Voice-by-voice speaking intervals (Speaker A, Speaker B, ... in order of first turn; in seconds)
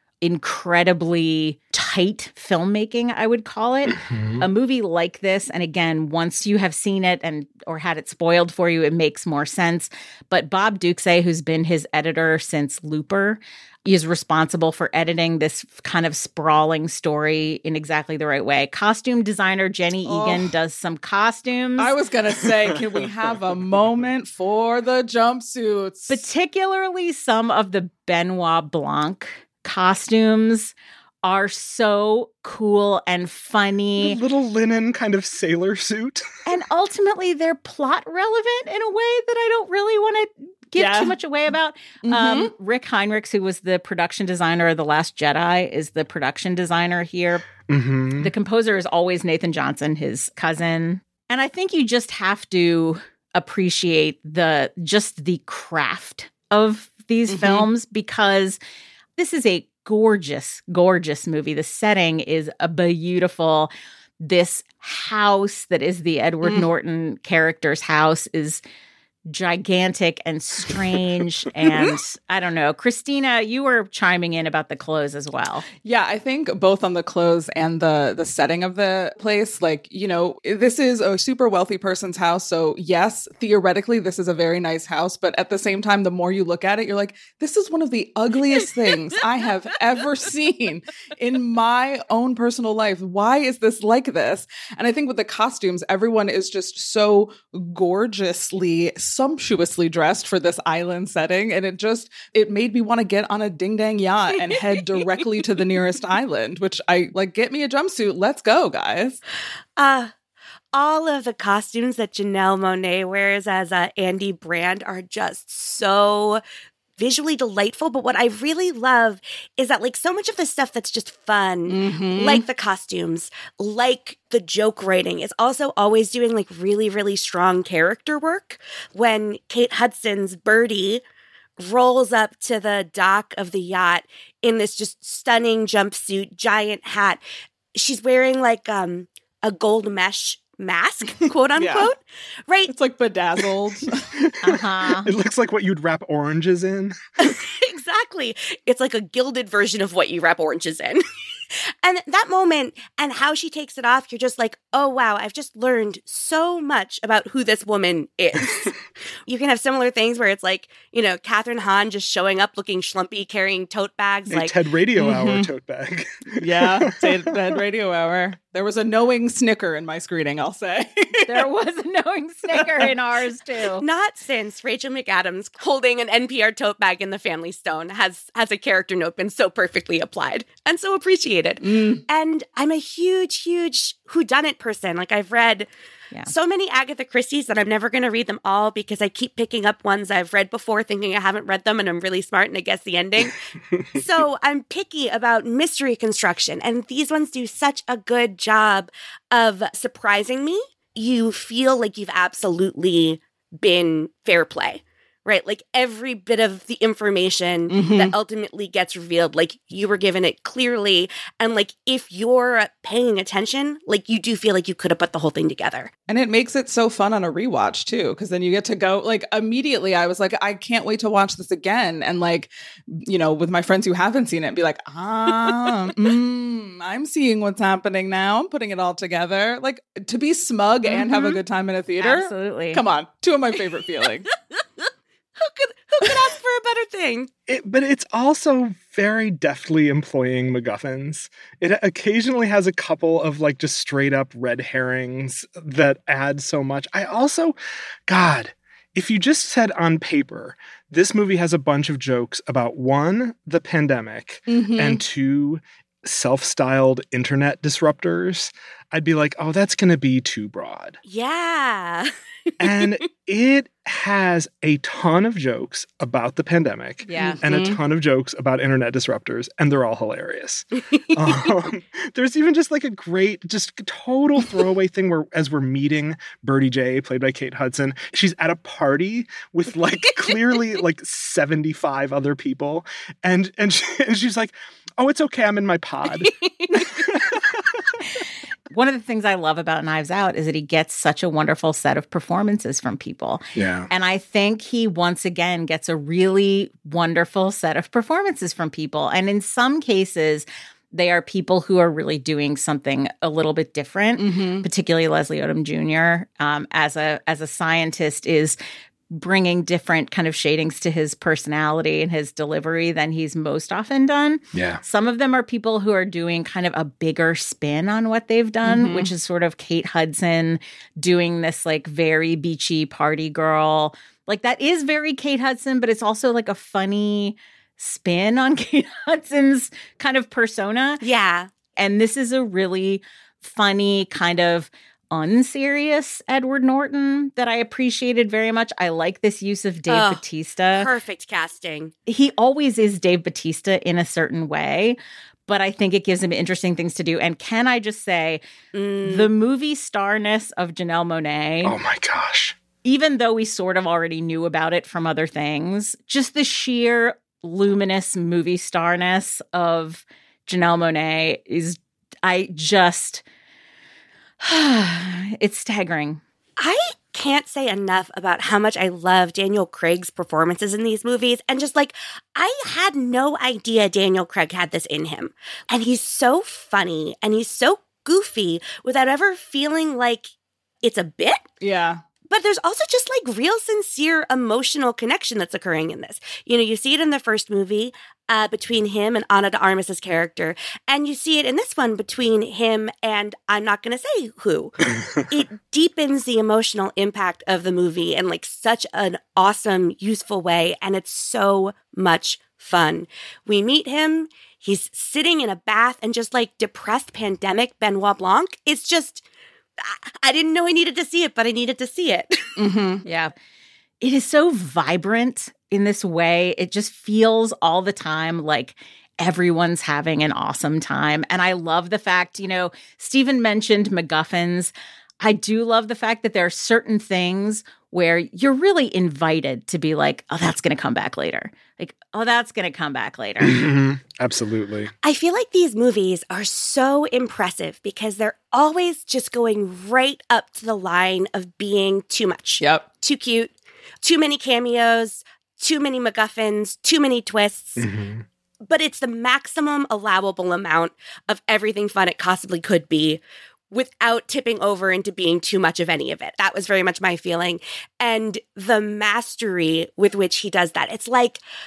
Speaker A: 0.2-22.0, 26.1-34.2, 36.5-47.5, 48.2-58.6, 59.2-68.6, 69.3-75.7, 144.4-145.1, 171.3-173.8, 230.9-231.4, 232.0-232.8, 267.1-267.4, 288.7-308.6, 309.1-331.0, 331.8-340.9, 342.1-348.4, 349.0-351.8, 352.8-363.2, 364.4-366.2, 413.1-413.3, 414.0-433.6
Speaker B: 4.0-4.4, 34.0-36.3, 47.7-48.3, 144.2-147.0, 164.3-167.2, 237.5-247.6, 248.1-261.0, 262.6-287.7, 293.6-293.9, 314.5-314.8, 351.6-352.6, 433.4-434.9, 447.8-448.2
Speaker C: 20.1-20.5, 21.8-26.2, 40.8-41.2, 42.0-42.5, 57.3-57.7, 66.4-66.7, 75.8-109.2, 121.7-122.5, 141.6-141.9, 142.7-144.2, 165.0-165.5, 166.4-171.5, 181.6-182.1, 207.7-208.2, 216.1-234.3, 254.5-255.0, 267.2-267.8, 304.2-304.7, 318.6-319.1, 381.6-382.0, 412.6-413.0, 442.6-442.9
Speaker D: 109.8-110.1, 110.7-116.4, 117.0-131.0, 131.6-137.2, 137.8-142.7, 147.2-151.0, 151.8-164.6, 173.8-185.7, 186.3-193.4, 193.9-215.9, 235.4-237.3, 261.1-262.1, 286.2-286.8, 331.0-331.5, 339.9-340.2, 340.8-341.9, 348.7-349.3, 366.6-380.3, 380.8-381.5, 382.3-409.2, 409.8-412.5, 435.0-447.9, 448.7-461.4